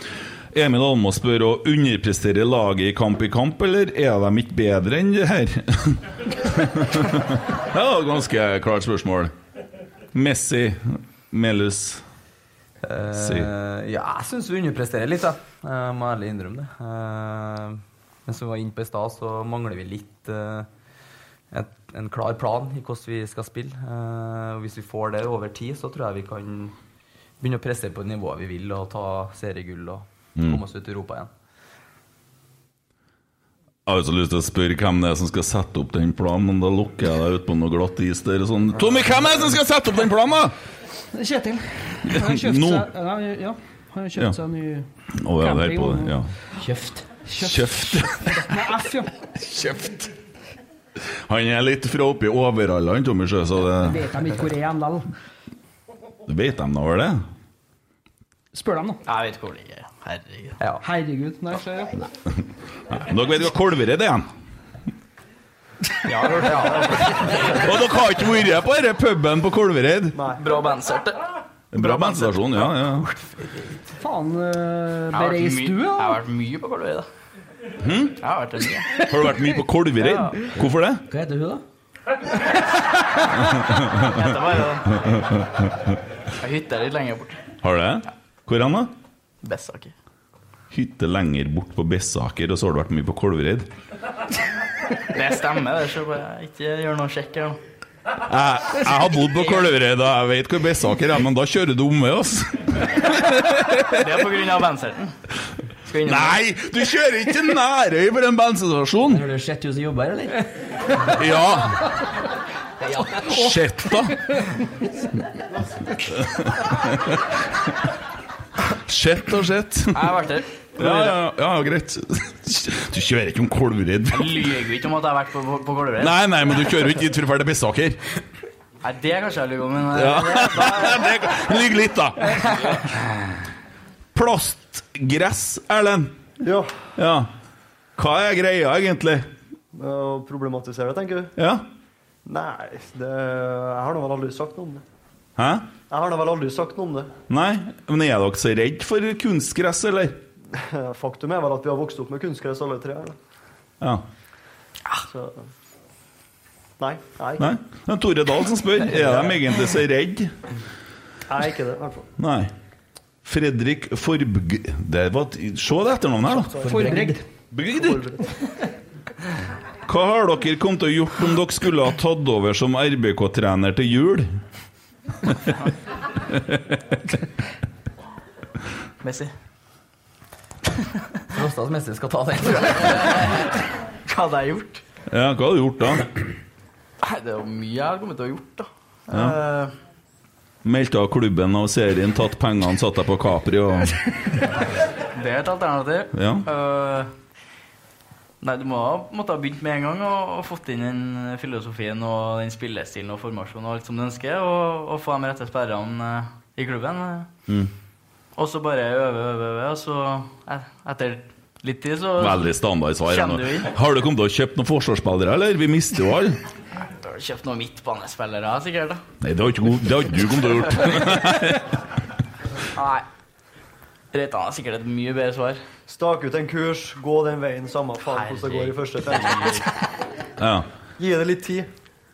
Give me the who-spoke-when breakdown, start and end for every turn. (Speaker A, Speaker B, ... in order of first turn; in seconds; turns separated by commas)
Speaker A: 0.5-9.3, Speaker A: 10.1-12.0, Speaker B: 12.8-20.7, Speaker A: 13.1-13.5, Speaker B: 21.5-26.8, Speaker B: 27.4-31.3, Speaker A: 33.9-40.5, Speaker C: 41.1-44.9, Speaker A: 42.0-42.9, Speaker A: 45.1-46.3, Speaker C: 45.4-46.2, Speaker D: 46.6-47.0, Speaker C: 47.2-49.2, Speaker A: 47.4-48.4, Speaker A: 49.5-50.1, Speaker A: 51.3-54.0, Speaker C: 53.8-55.1, Speaker A: 56.3-57.2, Speaker C: 58.5-59.0, Speaker E: 59.0-60.6, Speaker C: 60.8-62.0, Speaker A: 62.9-64.3, Speaker E: 66.1-67.3, Speaker B: 66.3-67.2, Speaker A: 67.4-70.2, Speaker F: 70.1-70.5, Speaker E: 70.4-73.8, Speaker A: 71.7-73.1, Speaker C: 74.0-76.2, Speaker E: 75.1-77.1, Speaker A: 77.8-78.2, Speaker E: 78.2-79.1, Speaker A: 79.1-81.0, Speaker E: 80.0-80.4, Speaker D: 80.6-81.6, Speaker A: 83.4-84.4, Speaker E: 84.0-85.1, Speaker A: 85.0-85.8, Speaker E: 86.4-87.5, Speaker A: 87.6-88.9, Speaker E: 89.4-89.9, Speaker A: 90.7-93.7, Speaker E: 95.0-97.6, Speaker A: 98.3-104.3, Speaker E: 103.9-105.1, Speaker E: 105.9-106.4, Speaker A: 106.0-109.2, Speaker D: 109.1-110.5, Speaker A: 111.1-111.9, Speaker D: 112.8-113.3, Speaker A: 113.1-114.3, Speaker A: 116.1-117.3, Speaker A: 118.7-120.2, Speaker E: 119.9-121.0, Speaker A: 120.8-124.6, Speaker E: 124.1-126.2, Speaker A: 126.0-128.0, Speaker E: 128.8-130.9, Speaker A: 129.9-132.8, Speaker E: 132.4-132.8, Speaker A: 134.2-136.2, Speaker F: 136.4-136.7, Speaker A: 137.0-137.3, Speaker A: 138.0-139.3, Speaker F: 139.7-141.3, Speaker A: 141.4-141.7, Speaker F: 142.3-144.8, Speaker A: 145.4-145.7, Speaker F: 145.9-147.1, Speaker A: 147.3-150.2, Speaker F: 150.5-153.2, Speaker F: 155.1-155.5, Speaker F: 156.8-157.5, Speaker A: 157.4-160.3, Speaker F: 161.3-162.1, Speaker A: 162.2-162.5, Speaker A: 163.2-166.6, Speaker F: 166.3-167.0, Speaker D: 166.6-167.2, Speaker C: 166.6-167.2, Speaker A: 167.5-168.1, Speaker F: 167.7-168.3, Speaker A: 169.9-174.3, Speaker A: 176.3-176.8, Speaker E: 179.0-179.3, Speaker E: 180.8-181.2, Speaker B: 181.3-183.4, Speaker E: 182.5-184.8, Speaker A: 185.1-186.2, Speaker E: 187.0-189.7, Speaker A: 189.1-189.4, Speaker A: 190.6-194.0, Speaker E: 195.1-197.1, Speaker A: 196.1-196.5, Speaker E: 198.4-207.3, Speaker E: 208.4-212.5, Speaker A: 212.2-216.4, Speaker E: 213.1-213.7, Speaker E: 217.0-219.0, Speaker A: 219.2-221.8, Speaker E: 222.7-223.1, Speaker E: 224.1-225.6, Speaker F: 225.9-229.7, Speaker E: 228.1-229.7, Speaker A: 230.4-230.7, Speaker F: 231.0-231.7